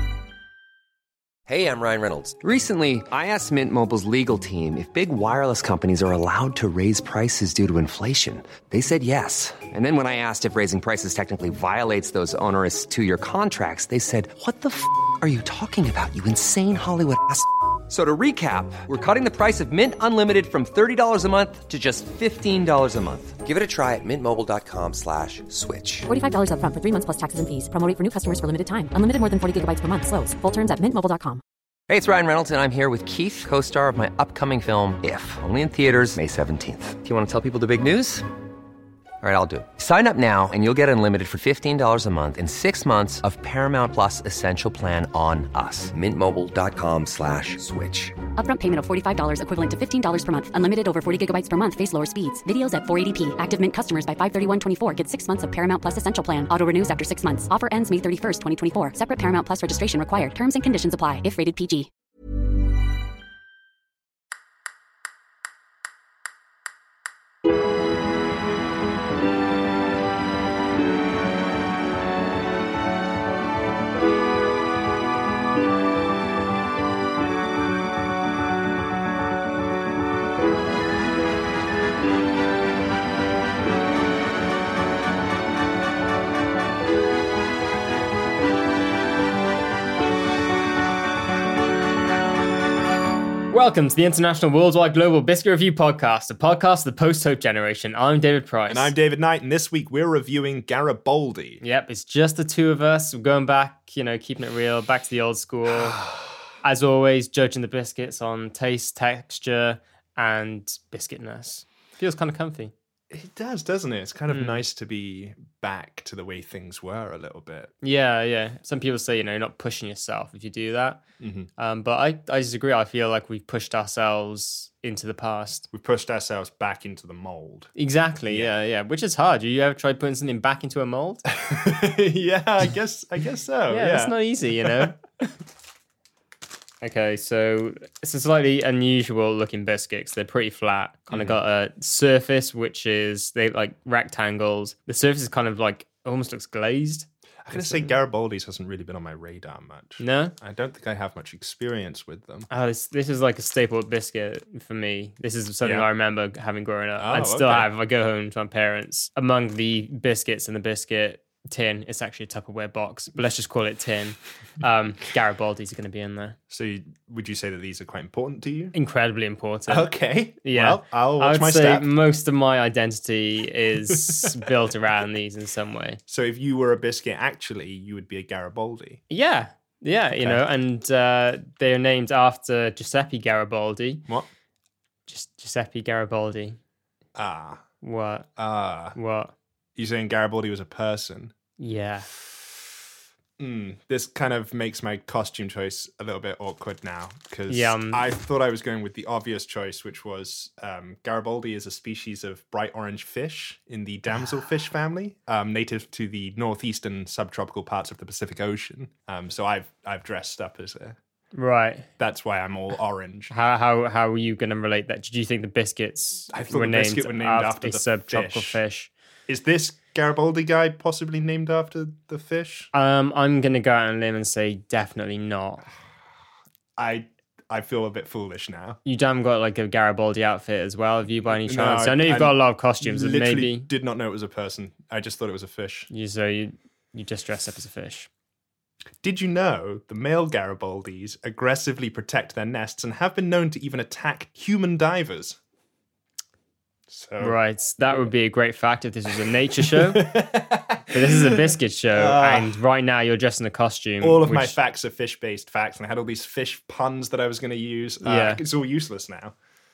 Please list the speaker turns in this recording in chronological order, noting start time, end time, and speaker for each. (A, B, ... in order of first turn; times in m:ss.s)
0:01.5-0:26.1 A
0:26.1-0:31.4 B
0:31.9-0:38.3 A
0:39.2-0:48.2 A
0:48.4-1:01.9 B
1:33.5-1:39.0 C
1:38.7-1:41.6 D
1:41.6-1:46.0 C
1:46.0-1:46.3 D
1:46.6-1:52.7 C
1:53.1-1:57.7 D
1:54.3-1:54.6 C
1:57.8-2:01.0 C
2:01.2-2:01.5 D
2:01.6-2:05.7 C
2:05.7-2:07.7 D
2:07.8-2:11.2 C
2:11.4-2:15.0 D
2:13.7-2:15.0 C
2:16.8-2:27.9 C
2:21.1-2:21.4 D
2:27.5-2:32.5 D
2:30.0-2:30.3 C
2:32.5-2:46.4 C
2:35.6-2:35.9 D
2:37.0-2:37.7 D
2:46.5-2:48.8 D
2:48.7-2:49.9 C
2:49.7-2:51.9 D
2:50.4-2:56.0 C
2:53.9-2:54.5 D
2:56.1-2:59.0 D
2:59.1-3:04.0 C
3:05.1-3:06.6 C
3:07.2-3:07.6 D
3:07.8-3:08.3 C
3:08.4-3:09.0 D
3:08.9-3:09.3 C
3:09.8-3:11.3 D
3:11.6-3:12.1 C
3:13.4-3:31.0 D
3:17.5-3:18.1 C
3:31.3-3:31.9 C
3:32.0-3:33.3 D
3:33.3-3:38.9 C
3:36.3-3:38.6 D
3:39.3-3:42.7 D
3:42.7-3:45.6 C
3:46.8-3:48.8 D
3:48.8-3:53.7 C
3:51.3-3:55.9 D
3:55.9-3:58.1 C
3:59.0-4:05.4 D
4:06.9-4:07.4 D
4:07.2-4:10.2 C
4:09.6-4:12.6 D
4:10.9-4:14.6 C
4:14.0-4:19.3 D
4:18.0-4:18.4 C